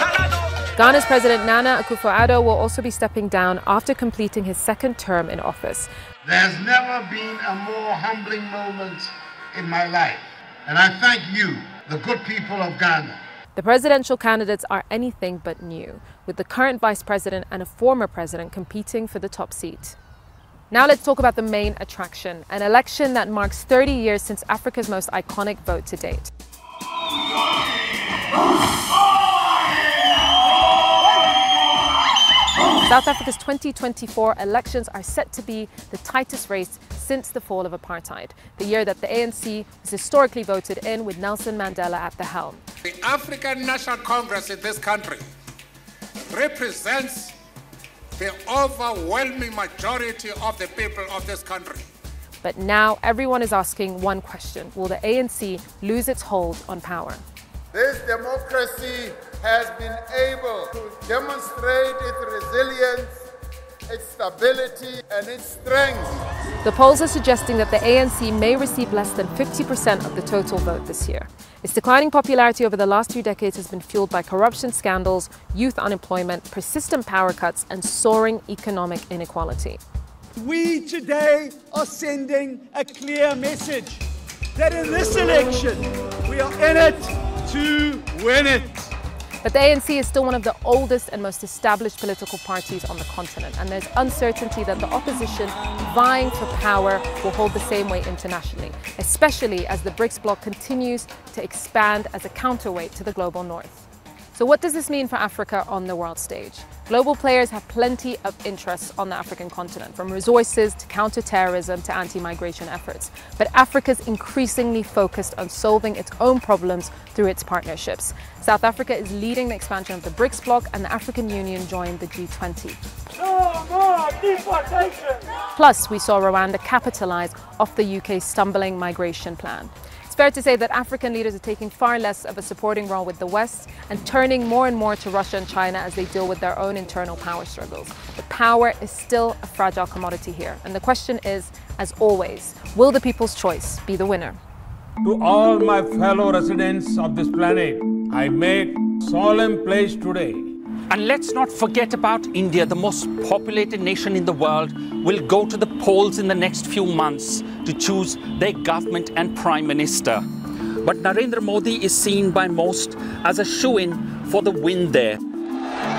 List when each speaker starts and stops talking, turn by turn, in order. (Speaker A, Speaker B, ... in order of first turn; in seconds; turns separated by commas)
Speaker A: 0.8-5.9, Speaker B: 6.2-13.2, Speaker A: 13.6-19.9, Speaker A: 20.7-26.3, Speaker A: 32.9-42.6, Speaker C: 43.0-45.2, Speaker C: 46.3-47.2, Speaker C: 48.2-51.8, Speaker A: 52.4-57.2, Speaker B: 57.7-63.2, Speaker B: 63.9-66.1, Speaker A: 66.6-79.8, Speaker D: 80.4-84.0, Speaker D: 84.6-88.9, Speaker A: 89.4-103.8, Speaker A: 104.3-122.8, Speaker A: 125.5-144.4, Speaker E: 145.0-150.5, Speaker F: 150.9-160.2, Speaker F: 160.8-165.2